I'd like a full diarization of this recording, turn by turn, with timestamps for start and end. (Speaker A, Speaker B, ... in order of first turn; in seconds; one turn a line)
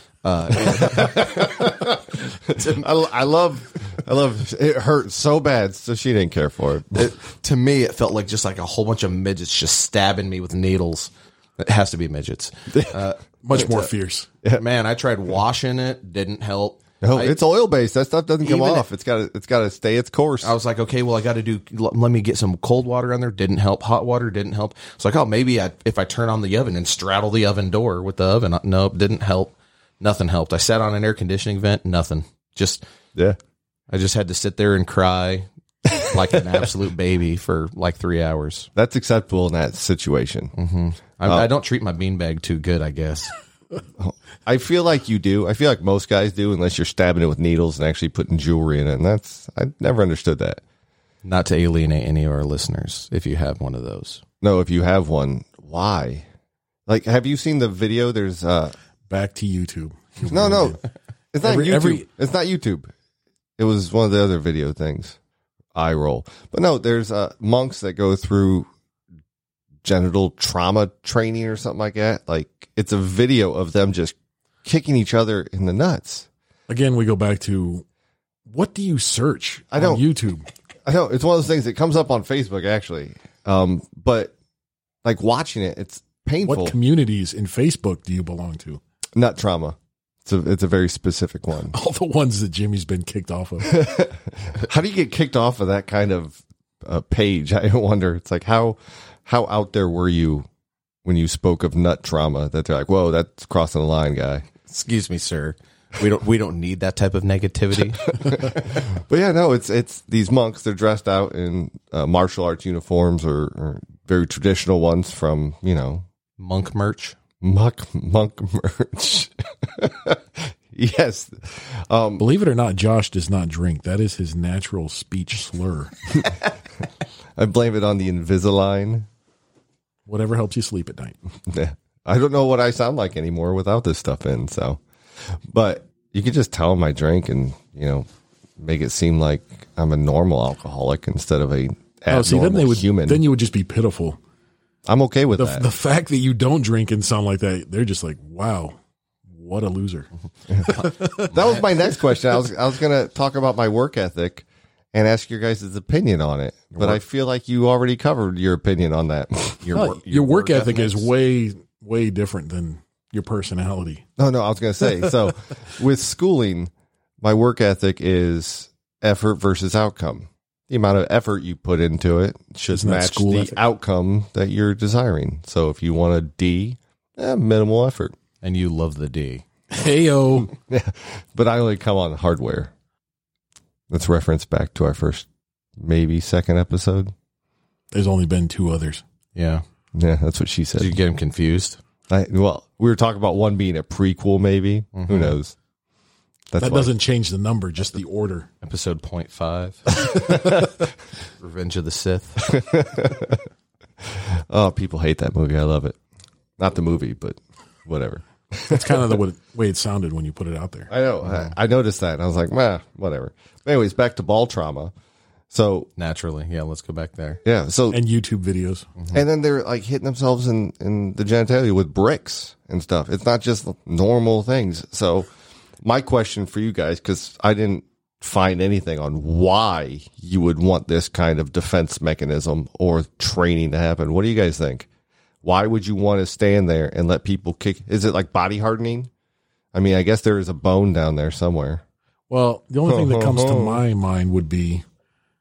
Speaker A: 0.2-2.9
Speaker B: 0.7-7.1
Speaker A: 7.0-13.9
Speaker C: 13.4-14.3
Speaker A: 14.5-17.4
Speaker B: 17.0-20.5
Speaker A: 18.4-18.9
Speaker A: 20.4-32.8
Speaker A: 33.9-38.7
Speaker B: 38.8-40.5
Speaker A: 40.6-43.3
Speaker B: 44.0-50.6
Speaker A: 51.2-54.2
Speaker B: 54.4-56.3
Speaker B: 56.9-58.8
Speaker C: 59.1-60.8
Speaker B: 60.3-60.8
Speaker B: 61.3-62.9
Speaker C: 61.4-62.1
Speaker B: 63.6-65.2
Speaker B: 65.8-68.7
Speaker B: 69.8-76.3
Speaker C: 76.7-77.8
Speaker C: 78.5-80.5
Speaker B: 79.7-80.0
Speaker B: 80.9-84.3
Speaker B: 85.0-86.7
Speaker C: 86.4-88.8
Speaker B: 89.2-91.8
Speaker C: 91.7-93.8
Speaker B: 93.6-100.5
Speaker B: 101.0-104.5
Speaker A: 104.7-108.5
Speaker B: 108.1-116.0
Speaker A: 116.4-117.2
Speaker B: 117.4-122.2
Speaker C: 122.2-125.9
Speaker B: 127.4-129.1
Speaker C: 130.1-131.2
Speaker B: 131.5-134.8
Speaker B: 135.3-138.1
Speaker B: 138.6-143.2
Speaker C: 142.1-144.2
Speaker B: 144.9-145.7
Speaker C: 145.4-148.8
Speaker C: 149.3-150.1
Speaker B: 150.5-159.6
Speaker C: 150.6-151.4
Speaker A: 159.6-161.1
Speaker C: 159.7-164.1
Speaker B: 164.2-166.7
Speaker B: 167.2-178.1
Speaker C: 172.7-173.6
Speaker A: 178.4-179.4
Speaker C: 179.7-180.5
Speaker B: 180.6-182.7
Speaker B: 183.9-185.3
Speaker B: 185.8-187.1
Speaker C: 187.9-189.0
Speaker A: 189.3-189.6
Speaker B: 189.9-190.9
Speaker A: 190.8-191.8
Speaker B: 192.1-195.6
Speaker A: 194.9-195.4
Speaker B: 196.5-196.9
Speaker C: 196.6-198.5
Speaker A: 198.6-200.6
Speaker B: 200.1-200.7
Speaker A: 201.4-202.5
Speaker B: 202.4-203.4
Speaker B: 204.1-206.0
Speaker B: 206.6-209.2
Speaker C: 208.7-210.9
Speaker B: 210.9-214.9
Speaker B: 215.5-215.9
Speaker A: 216.0-217.4
Speaker B: 217.4-218.0
Speaker C: 217.9-218.9
Speaker B: 219.1-225.3
Speaker B: 225.8-234.9
Speaker B: 235.4-239.1
Speaker B: 239.7-241.8
Speaker C: 242.3-244.8
Speaker B: 242.9-243.8